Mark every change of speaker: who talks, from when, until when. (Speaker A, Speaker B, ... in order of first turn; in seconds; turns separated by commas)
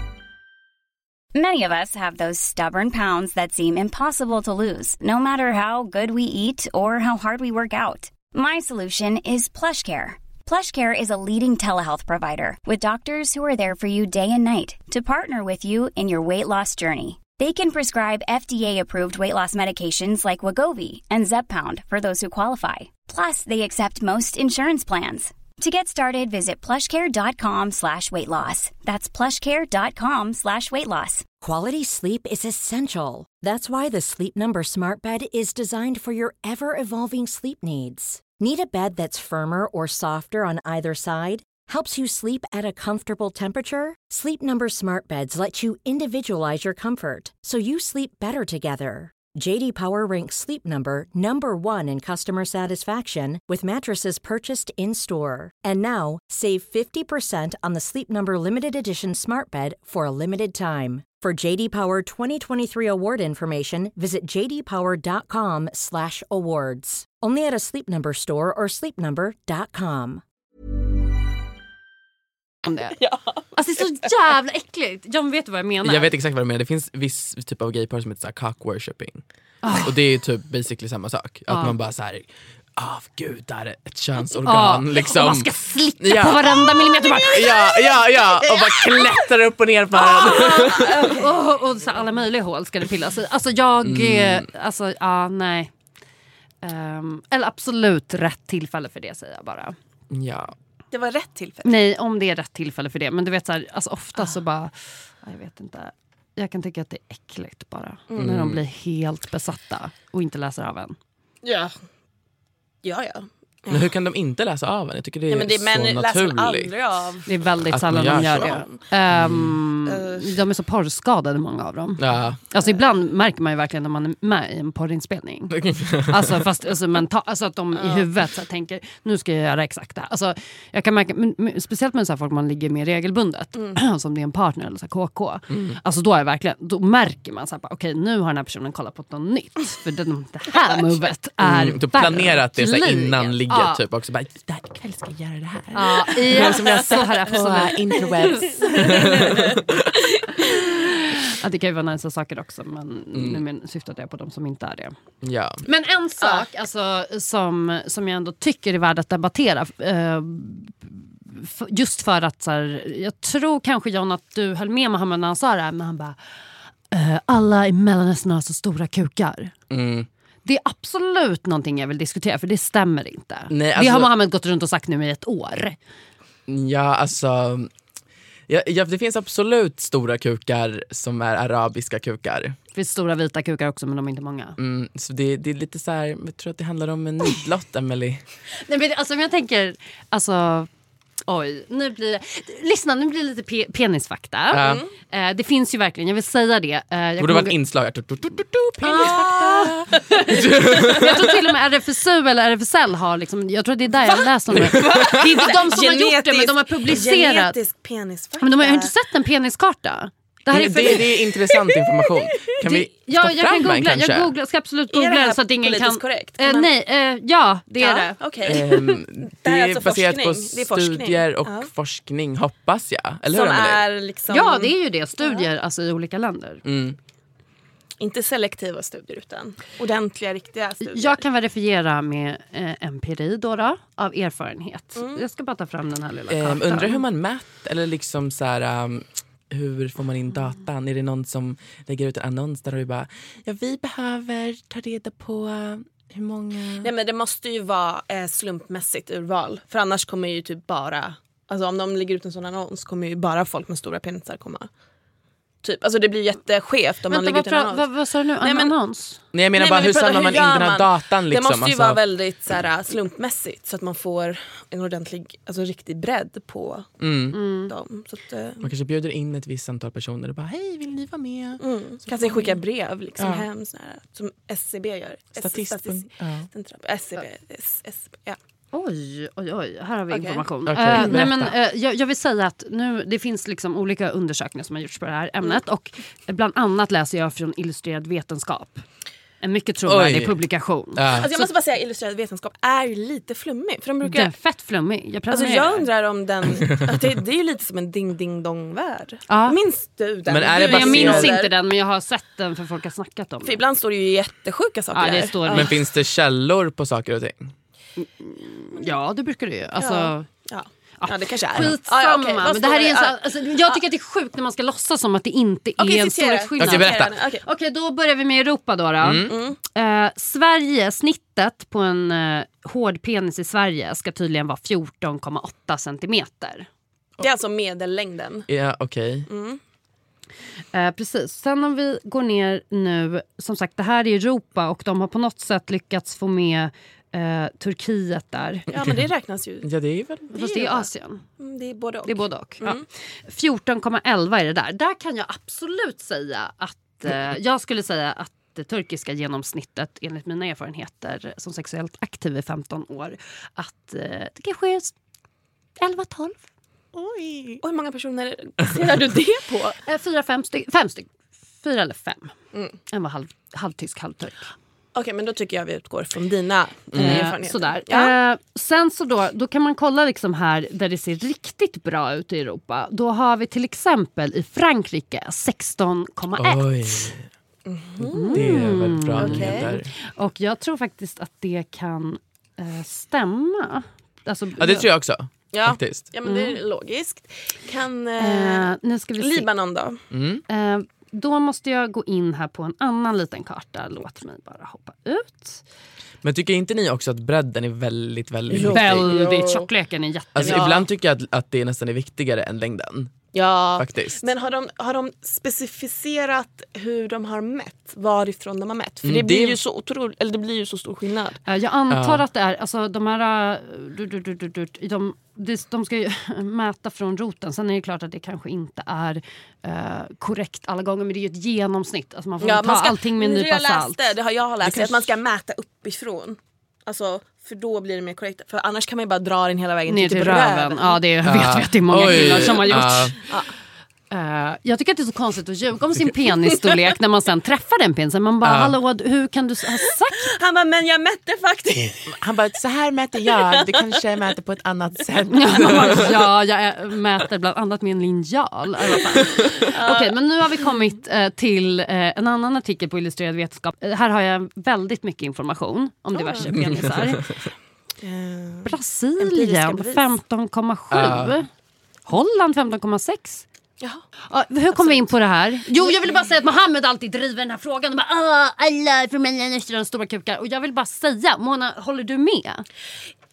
Speaker A: 1.3-31.3, Speaker B: 31.4-70.2, Speaker C: 72.6-73.0, Speaker D: 73.0-73.4, Speaker C: 73.5-76.1, Speaker E: 75.8-82.2, Speaker C: 79.6-79.9, Speaker C: 81.5-81.8, Speaker E: 82.8-86.7, Speaker C: 84.4-87.8, Speaker E: 87.3-91.2, Speaker D: 88.5-88.8, Speaker C: 90.0-95.7, Speaker D: 90.0-91.3, Speaker E: 93.8-94.5, Speaker C: 96.6-99.8, Speaker E: 100.1-100.5, Speaker D: 100.9-101.8, Speaker C: 101.6-111.0, Speaker E: 108.2-108.6, Speaker D: 111.4-111.7, Speaker D: 112.8-113.9, Speaker E: 113.7-116.7, Speaker D: 115.3-117.3, Speaker C: 117.3-143.8, Speaker E: 117.7-119.6, Speaker D: 118.2-118.8, Speaker D: 119.8-120.4, Speaker E: 122.0-122.4, Speaker E: 125.5-126.3, Speaker D: 127.8-128.1, Speaker E: 135.5-135.8, Speaker E: 141.4-149.8, Speaker C: 145.7-148.5, Speaker D: 147.9-150.6, Speaker C: 150.7-154.9, Speaker E: 153.1-153.4, Speaker E: 155.2-155.6, Speaker C: 155.6-166.2, Speaker C: 166.9-169.5, Speaker E: 169.7-170.1, Speaker C: 170.4-175.8, Speaker E: 173.5-174.1, Speaker E: 176.5-177.7, Speaker E: 178.5-182.6, Speaker C: 182.7-184.6, Speaker E: 184.6-188.2, Speaker C: 188.6-190.7, Speaker C: 191.3-197.6, Speaker E: 194.5-194.8, Speaker D: 194.6-194.9, Speaker E: 197.2-201.3, Speaker C: 198.8-207.6, Speaker D: 198.9-200.2, Speaker D: 204.5-208.9, Speaker E: 204.5-205.4, Speaker C: 208.4-211.2, Speaker E: 210.5-214.3, Speaker C: 212.6-218.2, Speaker D: 214.9-216.7, Speaker D: 217.8-218.9, Speaker E: 218.4-223.9, Speaker D: 219.4-221.7, Speaker D: 223.3-225.5, Speaker C: 224.3-226.6, Speaker E: 226.6-227.0, Speaker D: 228.0-231.2, Speaker C: 230.9-237.0, Speaker D: 234.9-235.2, Speaker E: 236.3-246.9, Speaker D: 246.8-254.7, Speaker D: 255.6-257.9, Speaker C: 257.1-259.2, Speaker D: 258.4-258.7, Speaker E: 259.3-262.0, Speaker D: 259.5-266.9, Speaker E: 267.0-267.4, Speaker C: 267.3-267.7, Speaker D: 267.7-268.7, Speaker E: 268.6-272.6, Speaker D: 271.6-278.4, Speaker E: 273.2-273.4, Speaker E: 275.4-276.5, Speaker C: 278.7-288.8, Speaker D: 280.1-281.2, Speaker E: 280.6-281.5, Speaker C: 289.4-291.2, Speaker E: 289.9-290.4, Speaker E: 290.9-291.3, Speaker D: 291.1-294.3, Speaker C: 294.0-295.9, Speaker D: 295.3-301.5, Speaker C: 299.3-299.6, Speaker E: 300.3-301.3, Speaker C: 300.6-303.6, Speaker D: 303.4-305.7, Speaker C: 304.9-305.7, Speaker E: 305.5-307.5, Speaker C: 308.0-310.3, Speaker D: 309.8-313.8, Speaker C: 311.0-326.7, Speaker D: 315.8-317.4, Speaker E: 316.6-317.2, Speaker E: 319.0-319.3, Speaker D: 319.3-319.6, Speaker D: 327.2-328.5, Speaker E: 328.5-329.3, Speaker D: 329.3-329.6, Speaker C: 330.7-338.7, Speaker D: 338.7-339.7, Speaker E: 339.6-340.3, Speaker D: 340.3-340.9, Speaker C: 340.3-341.2, Speaker D: 341.4-342.8, Speaker C: 342.0-354.9, Speaker C: 355.8-356.4, Speaker D: 357.0-359.8, Speaker C: 359.8-362.3, Speaker C: 362.9-364.5, Speaker D: 364.9-368.1, Speaker E: 366.9-367.3, Speaker C: 366.9-377.1, Speaker E: 376.4-377.3, Speaker D: 377.6-379.7, Speaker C: 378.0-384.9, Speaker E: 378.3-379.9, Speaker E: 384.6-386.1, Speaker D: 385.5-390.0, Speaker C: 386.2-386.6, Speaker C: 388.2-389.5, Speaker E: 390.1-390.4, Speaker C: 390.5-395.6, Speaker E: 396.2-399.1, Speaker D: 398.5-399.7, Speaker C: 398.7-400.9, Speaker E: 400.4-403.1, Speaker D: 400.4-400.7, Speaker D: 403.3-411.4, Speaker E: 403.8-404.2, Speaker E: 409.0-409.6, Speaker C: 411.4-424.1, Speaker E: 411.9-412.2, Speaker D: 422.4-431.0, Speaker C: 424.6-424.9, Speaker C: 429.9-433.1, Speaker E: 431.2-433.2, Speaker D: 432.0-433.5, Speaker C: 434.1-440.3, Speaker E: 438.4-438.8, Speaker D: 440.2-442.1, Speaker E: 442.1-446.2, Speaker D: 443.2-444.0, Speaker C: 445.3-457.3, Speaker D: 449.6-450.1, Speaker D: 456.1-456.6, Speaker D: 458.0-460.1, Speaker C: 458.6-461.5, Speaker E: 460.9-461.4, Speaker C: 462.1-463.4, Speaker C: 464.3-472.6, Speaker D: 464.7-465.1, Speaker D: 465.8-466.3